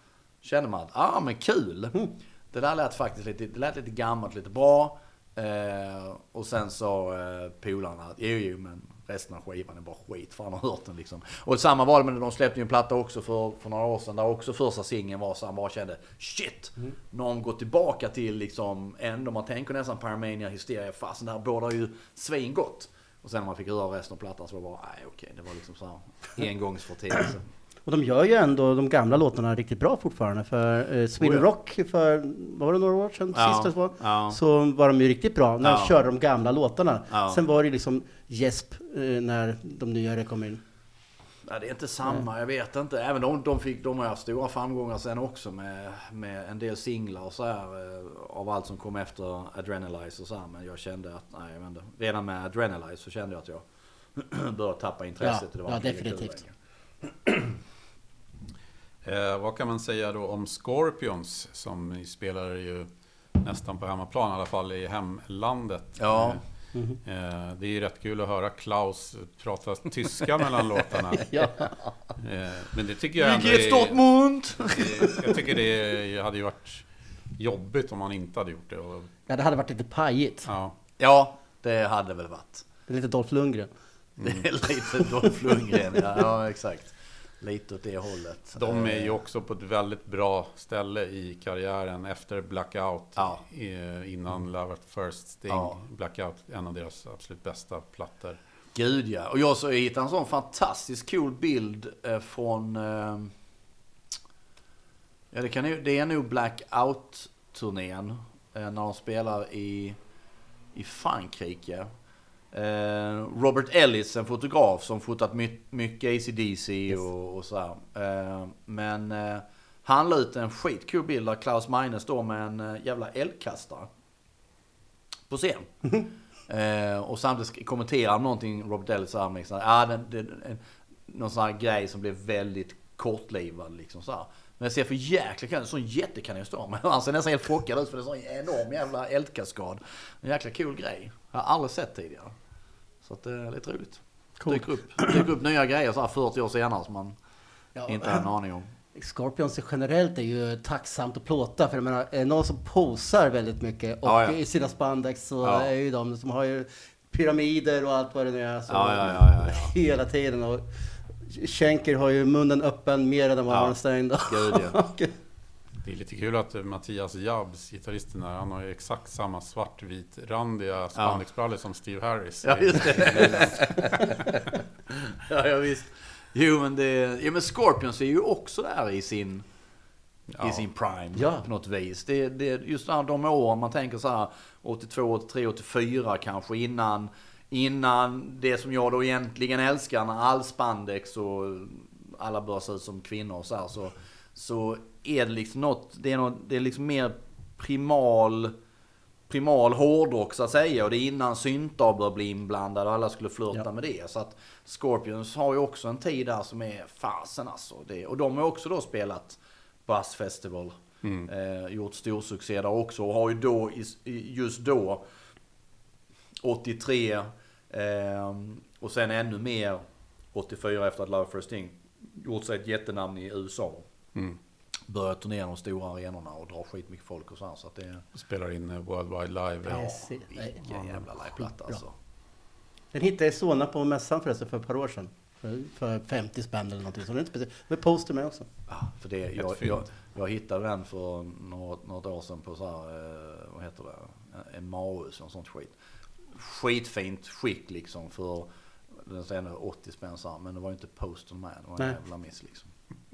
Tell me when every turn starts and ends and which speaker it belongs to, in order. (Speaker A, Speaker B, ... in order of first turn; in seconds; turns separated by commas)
Speaker A: 0.4-27.4, Speaker B: 27.9-40.6, Speaker A: 31.2-31.4, Speaker A: 33.3-34.4, Speaker A: 35.6-35.9, Speaker A: 37.1-37.4, Speaker A: 41.5-53.6, Speaker A: 54.1-56.5, Speaker B: 55.2-56.4, Speaker A: 57.2-57.5, Speaker C: 59.0-66.4, Speaker A: 66.0-66.4, Speaker B: 66.7-67.0, Speaker C: 67.0-71.3, Speaker C: 72.2-79.1, Speaker A: 73.2-75.2, Speaker B: 79.3-80.5, Speaker C: 80.5-80.7, Speaker A: 81.0-82.7, Speaker B: 82.9-83.7, Speaker A: 84.2-89.1, Speaker C: 88.5-98.4, Speaker A: 93.2-93.4, Speaker A: 95.5-95.8, Speaker A: 98.7-103.3, Speaker A: 105.3-110.0, Speaker A: 110.7-111.9, Speaker A: 112.5-123.9, Speaker A: 125.3-125.7, Speaker A: 126.5-142.3, Speaker A: 143.0-147.2, Speaker B: 144.4-145.2, Speaker B: 147.7-148.3, Speaker A: 147.9-148.7, Speaker B: 148.9-160.6, Speaker A: 154.0-154.4, Speaker A: 155.4-155.7, Speaker A: 158.7-159.7, Speaker B: 161.2-165.1, Speaker A: 163.5-164.8, Speaker C: 165.8-174.1, Speaker A: 170.9-171.2, Speaker A: 172.4-179.4, Speaker C: 180.3-180.6, Speaker A: 180.4-198.6, Speaker B: 181.2-181.4, Speaker A: 199.3-215.1, Speaker C: 211.0-211.3, Speaker A: 216.4-223.9, Speaker A: 224.9-228.0, Speaker C: 228.1-230.0, Speaker B: 229.7-230.5, Speaker A: 229.7-231.9, Speaker C: 230.7-231.0, Speaker B: 231.4-231.8, Speaker B: 232.9-238.5, Speaker A: 238.7-245.8, Speaker C: 239.4-239.8, Speaker A: 246.3-252.7